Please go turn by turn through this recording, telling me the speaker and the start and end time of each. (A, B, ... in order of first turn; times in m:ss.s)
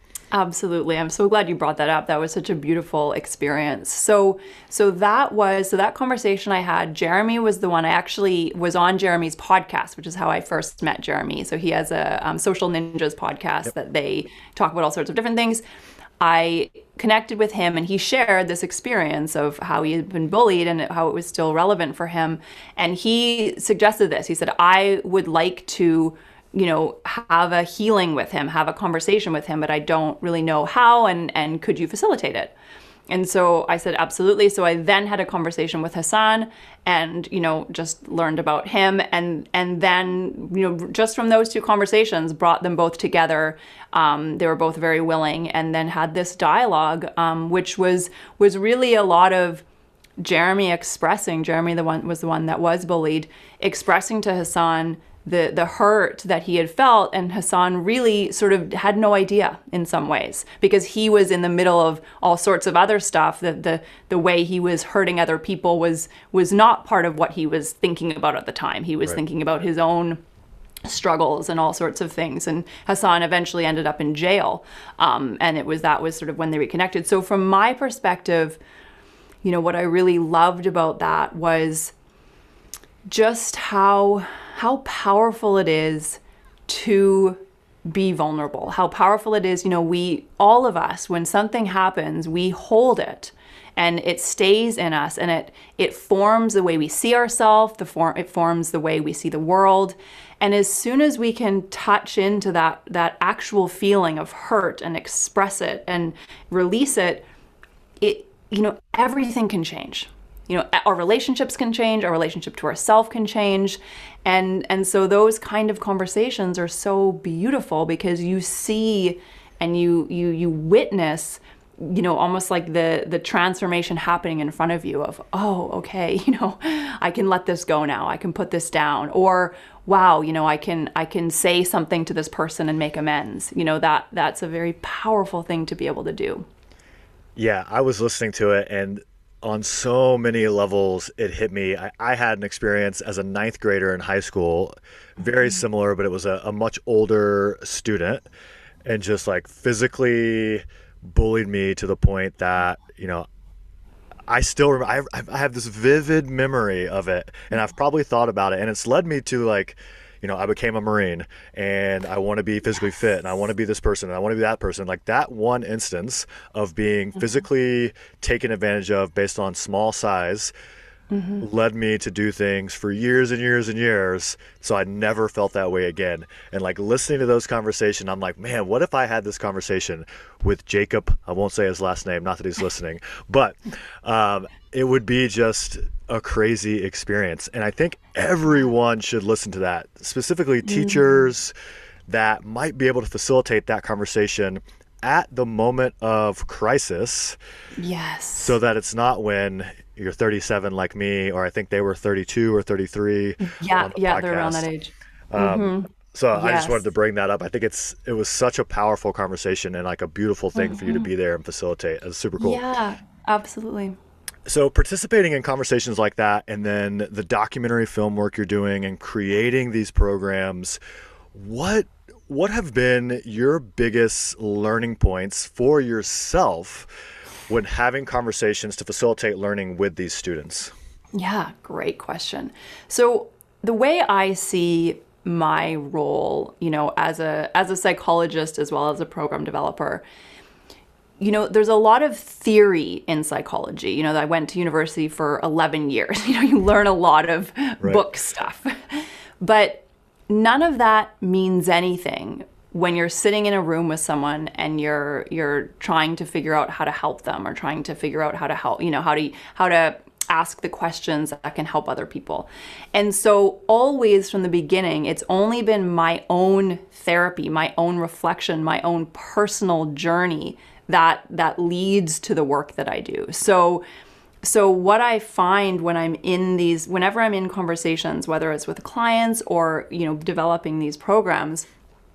0:00.3-0:15.6 A
0:16.2-0:32.5 A
0:33.1-0:49.6 A
0:50.2-1:10.2 A
1:10.8-1:18.6 A
1:19.4-1:22.0 A
1:23.1-1:47.2 A
1:48.0-2:16.5 A
2:17.4-2:28.3 B
2:28.8-2:33.3 B
2:34.3-2:50.5 B
2:51.1-2:51.4 A
2:51.4-3:11.5 B
3:10.6-3:11.2 A
3:12.1-3:17.4 B
3:17.8-3:18.6 A
3:18.4-3:24.7 B
3:23.4-3:26.8 A
3:25.3-3:32.7 B
3:30.6-3:31.1 A
3:32.4-3:34.0 A
3:34.5-3:40.8 B
3:41.3-3:46.9 B
3:47.5-3:50.7 B
3:51.1-4:00.0 A
4:01.2-4:33.8 A
4:34.4-4:41.7 A